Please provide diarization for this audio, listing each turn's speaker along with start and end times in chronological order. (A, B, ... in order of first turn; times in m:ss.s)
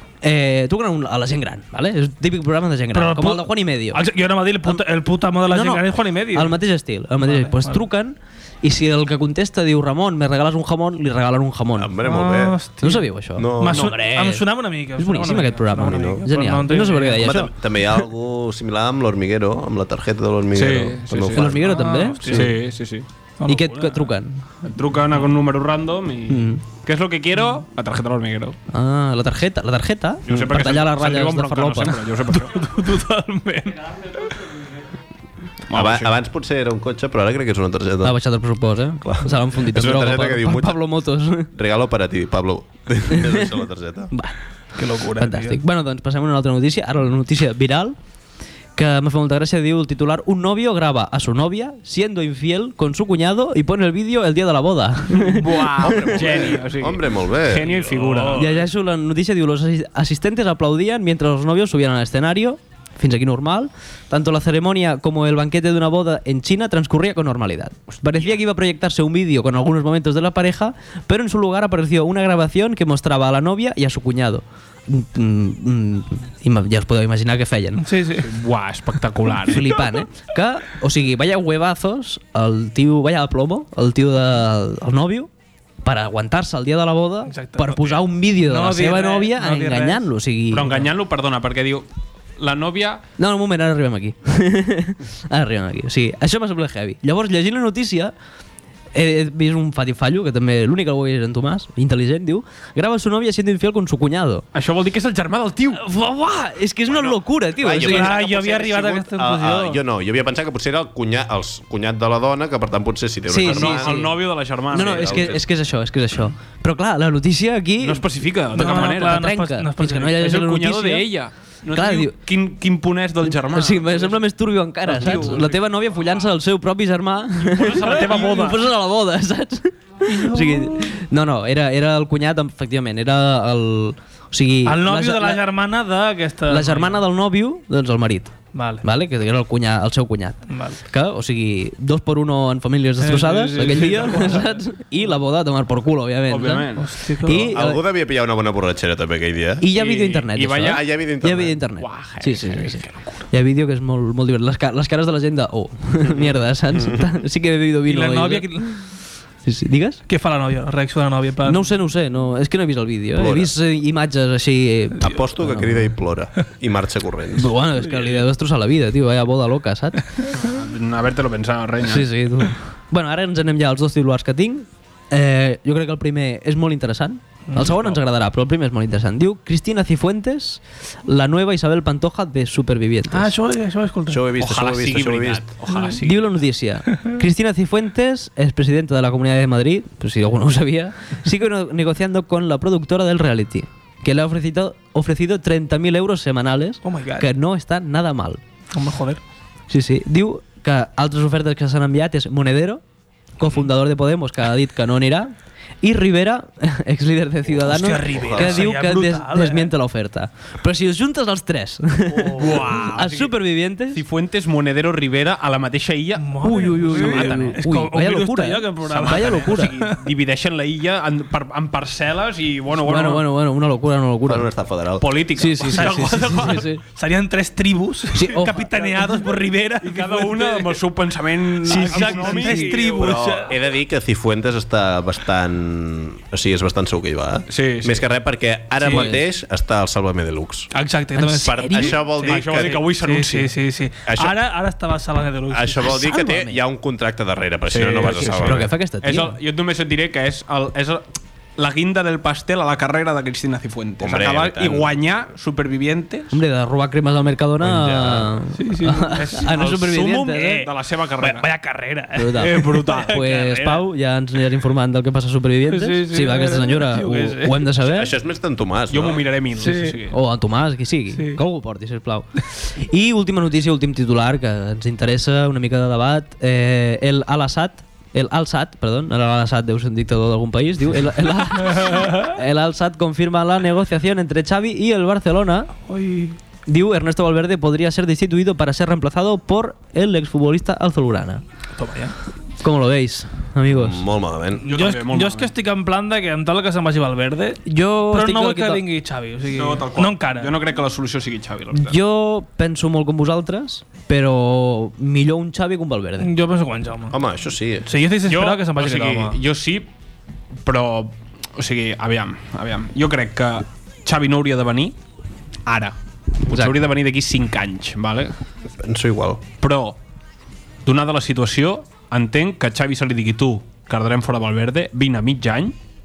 0:00.2-0:04.0 A
0:02.9-0:06.6 B
0:05.5-0:12.0 A
0:07.2-0:07.8 B
0:11.8-0:12.6 C
0:12.0-0:13.1 B
0:12.8-0:17.5 A
0:13.4-0:14.0 C
0:13.6-0:17.5 B
0:15.7-0:16.3 C
0:17.2-0:21.7 C
0:20.5-0:21.5 D
0:21.4-0:22.5 A
0:21.6-0:22.5 B
0:22.3-0:23.1 D
0:23.4-0:24.1 B
0:23.5-0:24.4 A
0:24.6-0:28.6 D
0:26.3-0:26.6 A
0:28.7-0:32.0 A
0:30.3-0:32.6 D
0:32.3-0:33.9 B
0:35.7-0:36.1 D
0:35.7-0:38.2 C
0:38.0-0:41.5 A
0:39.0-0:40.8 C
0:41.5-0:44.1 C
0:43.1-0:43.5 A
0:44.1-0:44.4 A
0:44.8-0:45.6 B
0:45.2-0:48.0 A
0:48.8-0:56.2 A
0:55.1-0:58.4 D
0:55.8-0:57.8 C
0:57.8-0:58.6 B
0:58.3-1:17.9 A
1:07.9-1:08.3 D
1:17.8-1:18.3 B
1:18.2-1:19.8 D
1:19.5-1:25.3 A
1:25.8-1:30.8 A
1:27.3-1:30.1 B
1:30.5-1:31.9 D
1:32.4-1:33.0 D
1:33.2-1:38.1 A
1:38.9-1:44.4 A
1:44.5-1:45.8 D
1:45.7-1:48.1 A
1:47.6-1:54.1 C
1:47.7-1:49.8 B
1:53.3-2:01.1 A
1:53.4-1:55.4 D
1:54.8-1:55.4 C
1:57.8-1:59.2 D
1:58.5-2:00.2 B
2:00.2-2:04.2 D
2:01.7-2:02.2 A
2:03.2-2:15.4 A
2:04.9-2:05.6 D
2:07.4-2:08.6 D
2:10.1-2:10.9 B
2:14.6-2:17.0 B
2:16.5-2:27.8 A
2:18.5-2:18.8 B
2:20.5-2:20.8 B
2:23.0-2:24.6 B
2:26.3-2:27.0 D
2:26.8-2:27.4 B
2:27.2-2:29.7 C
2:29.6-2:38.8 A
2:29.7-2:30.9 D
2:30.6-2:31.6 C
2:31.8-2:33.2 D
2:37.9-2:38.8 B
2:39.4-2:40.0 A
2:40.1-2:41.7 B
2:41.4-2:45.7 A
2:43.2-2:43.5 C
2:45.0-2:47.5 C
2:47.4-2:50.0 A
2:47.8-2:48.2 B
2:50.4-2:52.1 D
2:51.8-3:03.3 A
2:57.5-2:57.8 B
3:03.1-3:04.2 B
3:04.1-3:05.4 C
3:04.4-3:06.4 D
3:06.0-3:18.4 A
3:16.8-3:17.3 B
3:18.7-3:19.2 B
3:19.7-3:22.8 A
3:23.4-3:34.0 A
3:27.6-3:29.7 B
3:28.1-3:28.7 C
3:32.2-3:32.9 C
3:32.3-3:33.3 D
3:33.9-3:37.6 D
3:36.2-3:39.9 B
3:36.4-3:39.7 A
3:38.9-3:43.3 D
3:42.8-3:44.5 A
3:44.3-3:45.1 C
3:45.0-3:46.6 D
3:45.4-3:46.8 A
3:45.7-3:50.8 B
3:48.1-3:48.7 A
3:48.8-3:53.5 D
3:51.6-3:53.6 B
3:51.7-3:52.8 A
3:53.0-4:00.7 C
3:57.5-3:58.0 D
3:58.8-3:59.1 B
3:58.9-3:59.2 A
4:00.7-4:06.0 B
4:01.2-4:02.0 A
4:01.5-4:03.5 D
4:01.6-4:02.8 C
4:04.1-4:04.4 C
4:05.5-4:08.7 C
4:05.8-4:06.6 A
4:07.7-4:16.4 D
4:08.2-4:09.3 A
4:14.0-4:15.0 C
4:16.3-4:20.6 A
4:17.6-4:18.4 C
4:18.6-4:19.2 B
4:19.1-4:21.5 D
4:20.4-4:20.7 B
4:21.2-4:23.8 B
4:22.2-4:28.1 A
4:22.5-4:23.0 D
4:25.7-4:27.6 B
4:27.8-4:29.3 C
4:28.9-4:30.2 D
4:29.6-4:30.0 B
4:30.1-4:45.7 A
4:31.2-4:31.4 B
4:41.9-4:42.2 B
4:45.9-4:46.4 B
4:46.7-4:51.4 A
4:51.8-4:52.2 B
4:52.6-4:54.0 A
4:53.7-4:54.7 C
4:54.6-5:00.5 B
4:54.6-4:55.5 D
4:57.7-4:58.8 A
4:59.5-5:02.0 D
5:01.7-5:06.3 A
5:06.2-5:07.2 B
5:07.1-5:07.9 C
5:07.8-5:09.4 B
5:08.3-5:09.9 D
5:10.6-5:15.0 D
5:15.7-5:18.3 D
5:16.5-5:16.8 A
5:18.8-5:19.4 C
5:19.6-5:20.0 D
5:20.8-5:25.8 D